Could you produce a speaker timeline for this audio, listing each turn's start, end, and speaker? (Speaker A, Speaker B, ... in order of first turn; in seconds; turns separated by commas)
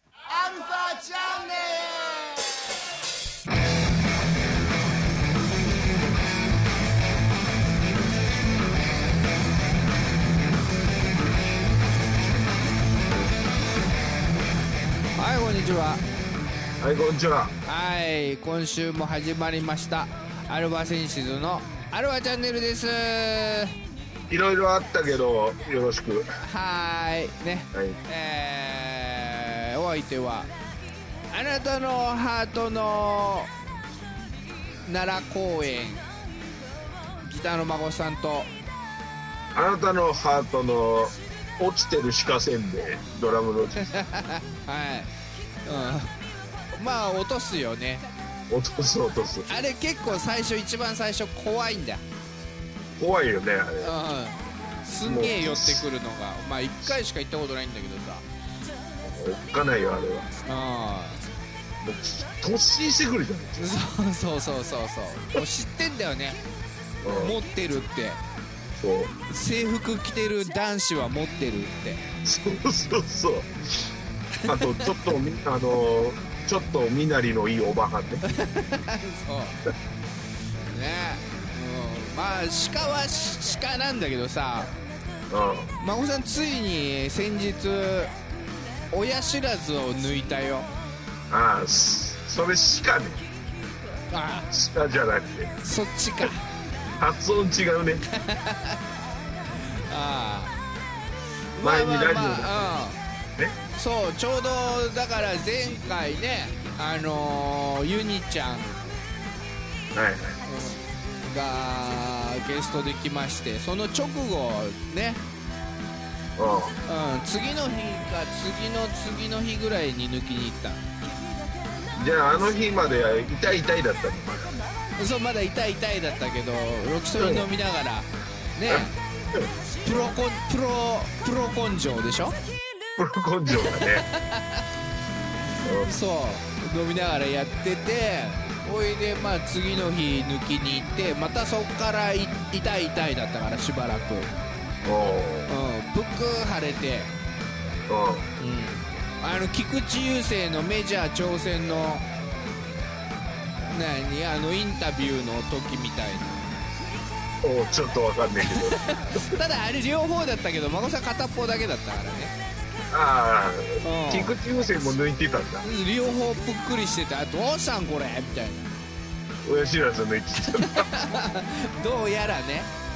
Speaker A: 0.2-2.4, Speaker B: 15.2-16.0, Speaker C: 16.8-17.5, Speaker B: 17.6-23.7, Speaker C: 24.3-26.2, Speaker B: 26.4-30.5, Speaker B: 31.3-33.5, Speaker B: 34.8-36.0, Speaker B: 37.2-38.5, Speaker C: 39.5-43.9, Speaker B: 43.8-45.1, Speaker B: 45.6-46.1, Speaker B: 46.8-48.0, Speaker C: 48.5-49.5, Speaker B: 49.5-52.0, Speaker C: 53.0-53.9, Speaker B: 53.8-58.2, Speaker C: 55.0-55.8, Speaker C: 59.0-60.3, Speaker B: 60.5-61.2, Speaker C: 61.8-63.7, Speaker B: 63.6-66.4, Speaker C: 67.0-67.3, Speaker B: 67.1-68.2, Speaker C: 68.8-69.1, Speaker B: 69.3-72.0, Speaker C: 72.2-73.9, Speaker C: 74.4-78.2, Speaker B: 74.5-74.8, Speaker B: 78.2-79.5, Speaker B: 80.7-84.7, Speaker C: 85.3-85.7, Speaker B: 85.8-88.1, Speaker B: 88.9-90.7, Speaker C: 91.3-93.2, Speaker B: 94.1-94.5, Speaker C: 94.5-95.5, Speaker B: 95.6-96.5, Speaker C: 97.0-98.0, Speaker B: 98.1-98.8, Speaker B: 99.6-100.5, Speaker B: 101.5-103.0, Speaker C: 101.6-102.8, Speaker B: 103.7-108.8, Speaker C: 109.9-110.4, Speaker B: 110.4-115.2, Speaker C: 116.4-116.8, Speaker B: 116.8-120.8, Speaker C: 121.9-124.6, Speaker B: 125.0-128.9, Speaker C: 127.2-127.5, Speaker C: 128.7-129.5, Speaker B: 129.8-132.3, Speaker C: 133.0-134.1, Speaker B: 133.6-134.6, Speaker C: 135.6-135.9, Speaker B: 135.8-144.3, Speaker C: 144.8-145.5, Speaker B: 145.5-147.1, Speaker C: 147.9-148.2, Speaker B: 148.4-152.1, Speaker B: 153.7-156.5, Speaker C: 157.4-159.2, Speaker B: 158.4-162.3, Speaker C: 162.9-165.7, Speaker B: 163.8-164.3, Speaker B: 165.6-168.7, Speaker C: 169.4-171.0, Speaker B: 170.4-172.7